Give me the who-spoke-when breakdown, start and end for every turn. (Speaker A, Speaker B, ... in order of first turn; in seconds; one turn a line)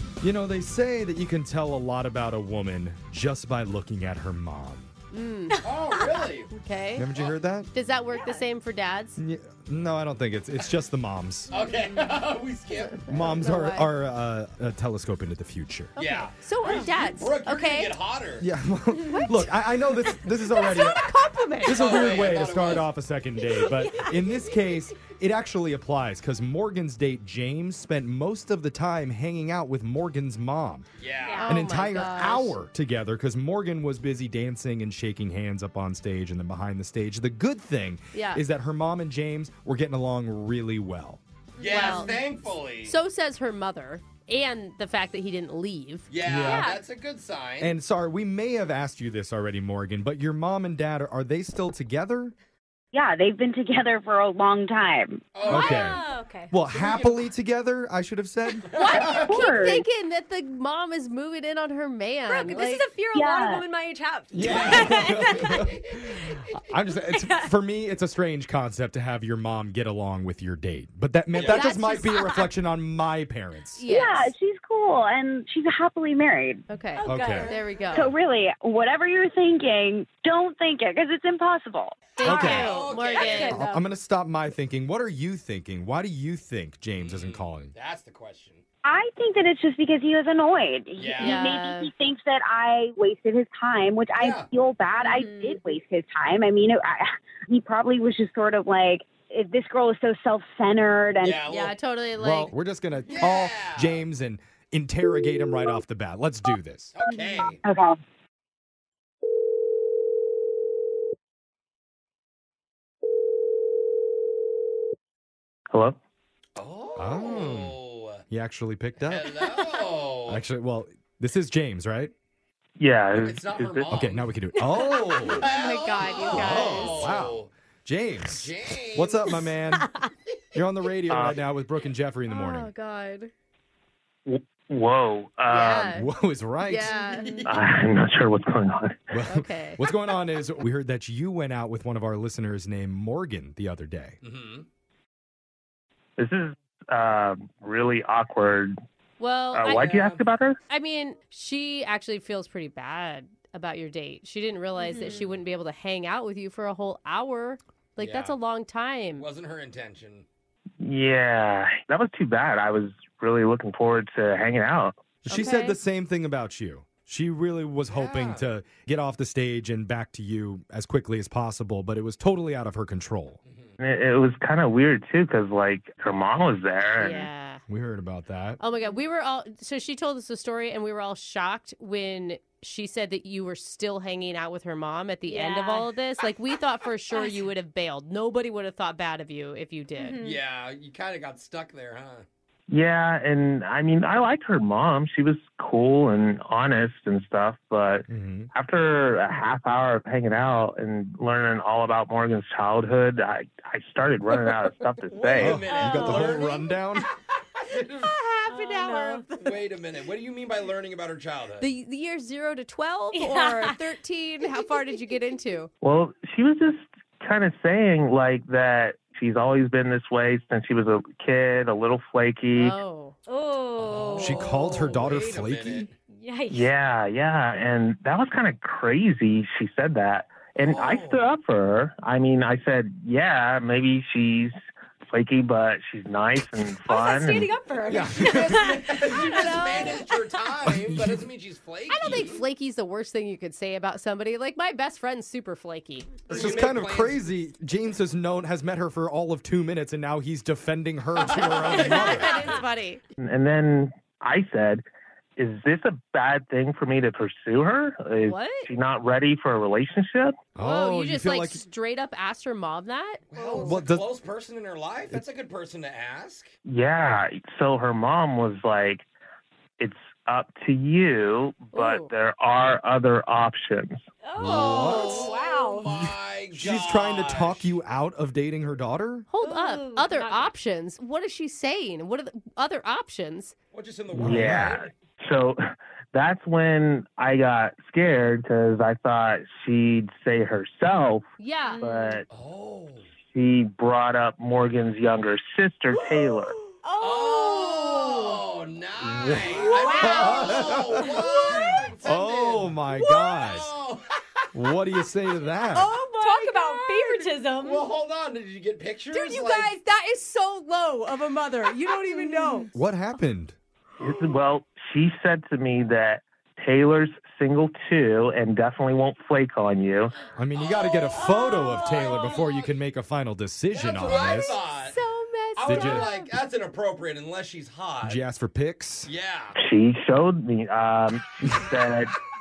Speaker A: 0.2-4.9
Speaker B: 5.1-5.7
Speaker C: 5.6-6.5
Speaker B: 6.5-7.1
Speaker A: 7.0-7.7
Speaker B: 7.7-9.2
Speaker D: 8.1-8.5
Speaker A: 9.2-11.5
Speaker C: 11.5-13.1
Speaker A: 13.1-15.9
Speaker B: 13.1-13.9
Speaker B: 16.0-17.9
Speaker C: 16.0-18.5
Speaker A: 18.4-30.9
Speaker B: 19.2-19.5
Speaker B: 20.5-22.0
Speaker C: 21.8-22.9
Speaker D: 23.4-24.5
Speaker C: 31.0-31.5
Speaker D: 31.2-31.6
Speaker B: 31.4-32.6
Speaker A: 31.4-41.2
Speaker B: 38.1-38.4
Speaker D: 41.6-42.2
Speaker C: 41.6-43.0
Speaker B: 41.7-42.2
Speaker B: 42.8-46.1
Speaker C: 46.1-47.7
Speaker A: 46.2-46.8
Speaker D: 46.4-46.8
Speaker A: 47.6-52.3
Speaker E: 52.9-55.6
Speaker C: 55.4-56.0
Speaker D: 55.4-56.6
Speaker A: 55.5-58.7
Speaker C: 56.6-57.3
Speaker C: 58.7-59.4
Speaker B: 58.7-62.9
Speaker E: 59.0-59.8
Speaker D: 62.3-65.6
Speaker E: 63.1-63.7
Speaker A: 64.3-73.8
Speaker C: 64.4-66.7
Speaker D: 67.1-67.5
Speaker C: 71.3-71.8
Speaker D: 71.6-72.5
Speaker B: 73.8-74.3
Speaker E: 73.9-76.7
Speaker B: 76.7-78.1
Speaker D: 77.0-77.8
Speaker A: 77.0-77.5
Speaker C: 77.2-77.5
Speaker E: 77.9-82.2
Speaker D: 82.2-83.9
Speaker B: 82.2-83.7
Speaker A: 82.2-87.7
Speaker C: 82.5-83.6
Speaker C: 87.0-88.6
Speaker E: 88.8-101.4
Speaker C: 91.0-91.4
Speaker B: 91.2-91.9
Speaker C: 94.2-94.5
Speaker D: 95.0-95.6
Speaker C: 101.2-101.8
Speaker B: 101.5-102.5
Speaker A: 102.2-107.0
Speaker C: 103.1-104.0
Speaker C: 107.0-107.6
Speaker E: 107.6-108.0
Speaker C: 116.6-118.2
Speaker A: 117.0-119.6
Speaker C: 119.0-120.4
Speaker A: 120.3-122.1
Speaker F: 122.8-124.0
Speaker C: 123.2-124.3
Speaker A: 123.9-125.5
Speaker C: 124.9-127.5
Speaker D: 125.0-125.3
Speaker B: 125.3-127.1
Speaker A: 126.3-129.9
Speaker C: 128.3-129.5
Speaker A: 130.5-132.7
Speaker F: 131.1-131.4
Speaker B: 132.3-133.3
Speaker F: 134.3-135.9
Speaker B: 135.5-136.1
Speaker A: 135.9-137.1
Speaker B: 136.7-137.4
Speaker C: 137.0-137.6
Speaker F: 137.4-139.0
Speaker A: 139.1-144.2
Speaker B: 139.3-139.8
Speaker C: 144.2-144.7
Speaker F: 146.2-148.8
Speaker B: 149.2-149.9
Speaker F: 149.5-150.6
Speaker C: 149.7-150.2
Speaker B: 150.7-159.3
Speaker D: 154.8-155.3
Speaker C: 158.0-158.4
Speaker C: 159.2-160.3
Speaker F: 160.8-164.9
Speaker A: 165.2-173.4
Speaker B: 165.3-165.8
Speaker C: 167.9-168.5
Speaker C: 173.4-173.7
Speaker F: 173.8-177.3
Speaker B: 177.0-177.6
Speaker A: 177.7-178.6
Speaker B: 178.6-190.2
Speaker D: 185.3-185.9
Speaker D: 187.1-187.4
Speaker D: 190.0-190.4
Speaker C: 190.2-192.3
Speaker F: 192.7-205.7
Speaker A: 198.1-198.5
Speaker C: 205.1-206.8
Speaker A: 205.4-207.1
Speaker D: 205.7-206.3
Speaker B: 206.0-206.3
Speaker C: 207.6-208.1
Speaker B: 208.0-209.6
Speaker D: 208.5-209.3
Speaker C: 209.4-211.7
Speaker B: 211.6-215.7
Speaker D: 213.1-213.8
Speaker F: 215.8-222.8
Speaker B: 222.6-223.2
Speaker D: 223.3-225.1
Speaker C: 223.8-225.9
Speaker A: 224.2-225.9
Speaker D: 226.1-226.7
Speaker F: 226.5-234.5
Speaker C: 230.7-231.2
Speaker F: 235.1-237.5
Speaker D: 236.8-239.2
Speaker A: 237.9-238.9
Speaker C: 238.0-242.4
Speaker B: 239.1-240.0
Speaker A: 240.6-241.3
Speaker B: 241.9-246.3
Speaker C: 246.3-247.2
Speaker A: 246.3-252.4
Speaker C: 251.2-252.6
Speaker B: 251.6-253.0
Speaker F: 253.2-254.8
Speaker F: 255.4-260.3
Speaker B: 258.2-258.7
Speaker A: 260.6-261.6
Speaker B: 260.6-263.8
Speaker C: 263.3-266.5
Speaker A: 263.6-264.1
Speaker F: 266.7-269.1
Speaker F: 269.8-274.0
Speaker B: 271.7-272.1
Speaker D: 274.2-275.9
Speaker C: 274.4-277.7
Speaker A: 274.4-275.4
Speaker A: 275.9-279.3
Speaker B: 279.3-283.5
Speaker D: 279.4-280.5
Speaker C: 283.7-284.9
Speaker F: 284.1-285.6
Speaker A: 284.2-284.8
Speaker F: 286.1-291.3
Speaker B: 291.4-291.8
Speaker D: 291.6-292.2
Speaker F: 291.8-292.2
Speaker C: 292.3-293.1
Speaker F: 293.3-296.5
Speaker D: 296.8-298.4
Speaker C: 297.0-302.8
Speaker A: 299.0-303.7
Speaker B: 299.5-300.2
Speaker D: 299.6-301.4
Speaker B: 301.3-301.8
Speaker B: 302.9-303.6
Speaker C: 303.4-304.5
Speaker A: 304.5-305.9
Speaker D: 305.7-307.9
Speaker B: 305.9-307.3
Speaker C: 307.6-309.8
Speaker B: 309.1-312.7
Speaker D: 312.1-312.6
Speaker A: 312.7-313.6
Speaker F: 314.0-320.1
Speaker A: 320.4-324.6
Speaker C: 320.6-322.7
Speaker D: 321.4-322.0
Speaker C: 323.7-325.0
Speaker B: 324.1-326.3
Speaker C: 325.6-328.2
Speaker A: 325.7-326.1
Speaker A: 328.0-329.1
Speaker C: 329.1-329.6
Speaker F: 329.6-332.1